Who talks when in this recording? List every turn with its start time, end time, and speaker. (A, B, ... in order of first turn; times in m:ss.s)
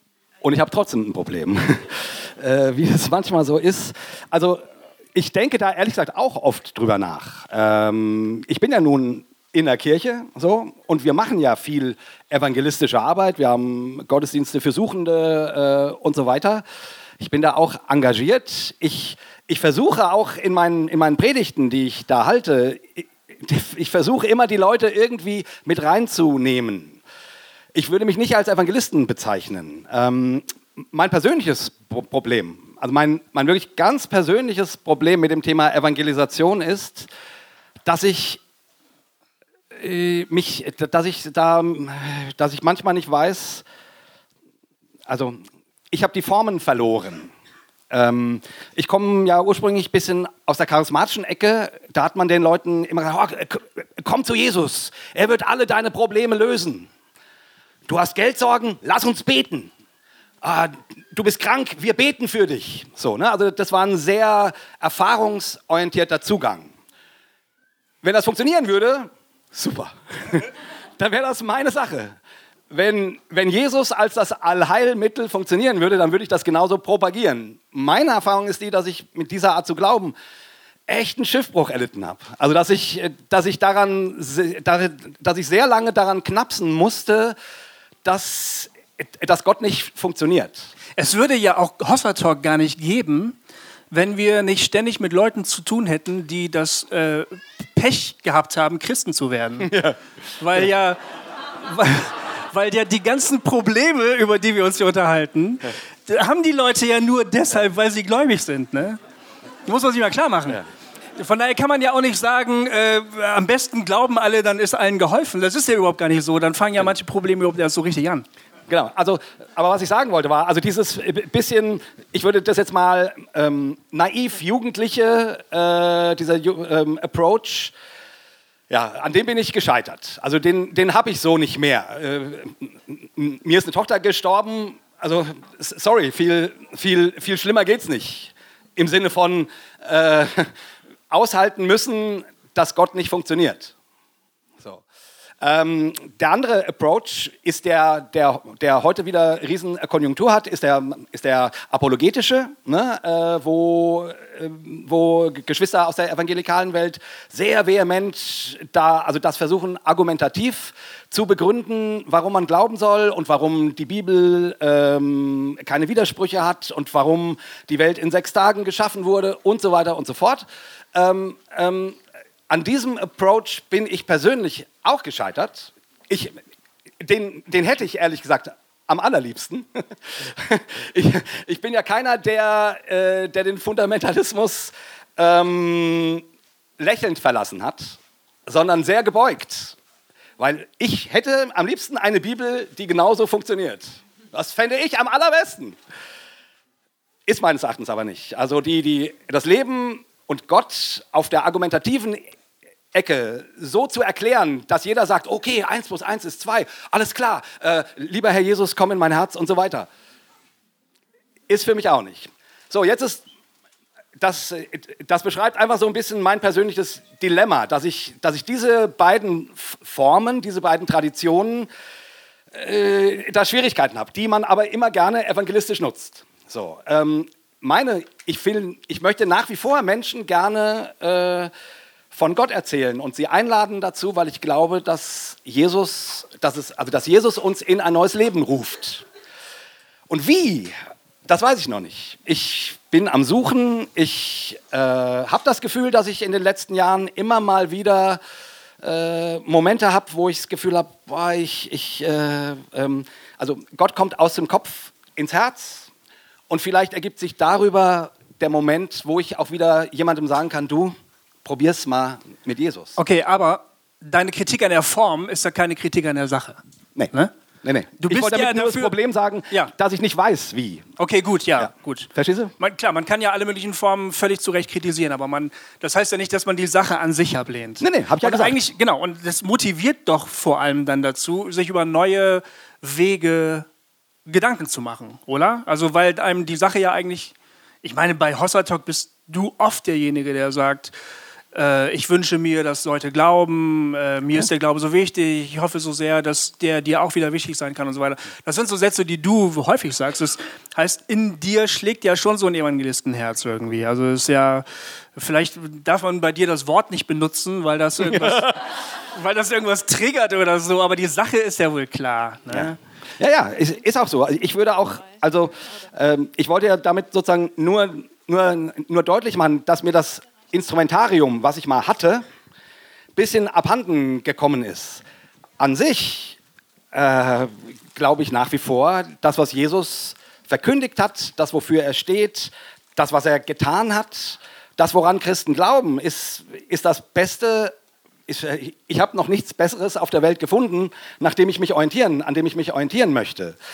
0:00.4-0:16.7 A
0:17.2-0:27.0 A
0:27.7-0:37.1 A
0:37.8-0:38.4 A
0:39.7-0:43.6 A
0:45.1-0:47.3 A
0:47.9-0:56.9 A
0:57.9-0:59.7 A
1:00.4-1:06.7 A
1:08.0-1:12.2 A
1:12.7-1:20.2 A
1:20.9-1:27.4 A
1:28.0-1:30.7 A
1:31.0-1:33.4 B
1:33.9-1:39.7 B
1:39.6-1:40.0 A
1:40.4-1:41.0 B
1:41.6-1:49.0 B
1:49.7-1:50.6 B
1:51.2-1:58.3 B
1:58.7-2:07.7 A
2:08.7-2:20.5 A
2:21.1-2:23.7 A
2:25.4-2:56.4 A
2:57.0-3:06.2 A
3:06.8-3:09.8 A
3:10.4-3:15.8 A
3:17.3-3:22.3 A
3:22.9-3:29.9 A
3:31.5-3:33.2 A
3:34.2-3:41.7 A
3:42.5-3:51.5 A
3:52.1-3:59.1 A
4:00.1-4:00.7 A
4:01.3-4:08.2 A
4:08.8-4:15.9 A
4:16.5-4:23.0 A
4:23.0-4:26.6 B
4:27.0-4:30.9 A
4:28.0-4:28.9 B
4:31.0-4:43.7 B
4:31.6-4:32.5 A
4:37.8-4:38.6 A
4:44.3-4:50.9 B
4:51.5-5:08.6 B
5:08.0-5:08.6 A
5:09.1-5:12.8 B
5:12.5-5:22.3 A
5:23.2-5:25.0 A
5:25.6-5:26.4 A
5:26.9-5:37.8 A
5:38.3-5:43.6 A